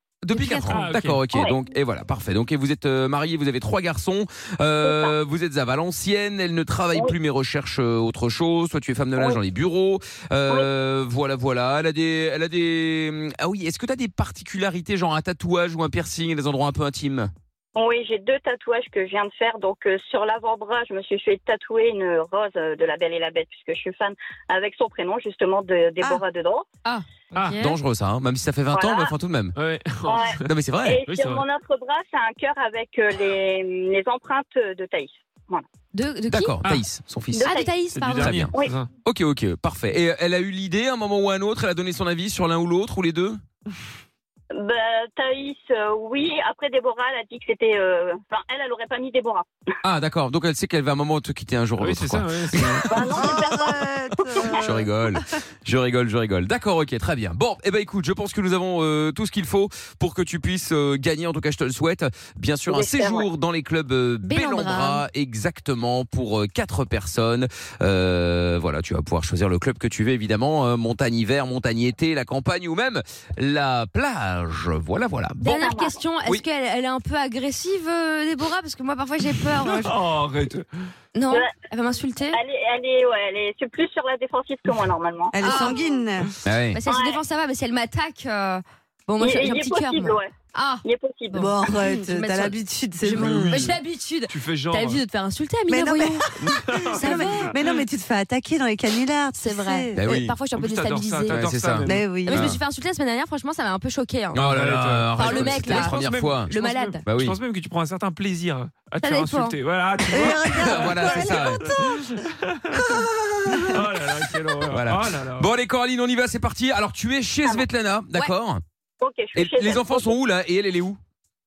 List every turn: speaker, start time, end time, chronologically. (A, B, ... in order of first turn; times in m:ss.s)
0:00.2-0:17.3 A
0:00.3-0:00.9 B
0:00.7-0:01.4 C
0:01.3-0:01.6 D
0:04.8-0:05.1 D
0:17.7-0:26.6 D
0:26.8-0:27.8 B
0:27.4-0:29.5 A
0:28.7-0:29.1 D
0:29.6-0:30.4 C
0:30.1-0:35.6 D
0:30.4-0:31.0 A
0:31.0-0:31.4 C
0:35.9-0:36.6 B
0:36.3-0:37.5 A
0:37.3-0:37.7 D
0:37.4-0:38.4 B
0:37.9-0:38.9 C
0:38.2-0:38.5 A
0:39.0-0:43.4 A
0:44.5-0:49.4 D
0:49.8-0:53.3 A
0:51.8-0:53.0 C
0:52.9-0:54.6 D
0:53.2-0:54.8 E
0:54.5-1:15.7 A
1:02.7-1:03.3 D
1:04.2-1:05.0 B
1:15.4-1:20.0 B
1:15.6-1:16.0 D
1:19.8-1:20.9 C
1:21.1-1:22.4 B
1:22.3-1:25.8 D
1:25.3-1:26.3 E
1:25.4-1:25.9 B
1:26.4-1:26.8 A
1:26.7-1:36.3 B
1:26.9-1:27.2 D
1:29.2-1:30.3 D
1:30.8-1:31.6 D
1:31.4-1:33.6 E
1:33.2-1:33.8 C
1:34.3-1:34.6 A
1:34.5-1:35.0 C
1:35.7-1:40.1 E
1:36.7-1:37.7 C
1:36.8-1:37.6 B
1:39.3-1:41.4 B
1:40.0-1:40.3 A
1:40.5-1:42.1 C
1:41.3-1:42.6 A
1:41.8-1:42.5 E
1:42.2-1:44.4 B
1:44.3-1:46.5 A
1:44.4-1:51.8 C
1:45.1-1:47.0 B
1:47.0-1:47.4 A
1:49.0-1:49.6 B
1:50.1-1:51.9 E
1:50.5-1:51.7 A
1:53.0-1:53.9 A
1:53.7-1:55.5 C
1:54.6-1:58.6 A
1:59.0-2:00.1 D
1:59.3-2:01.0 A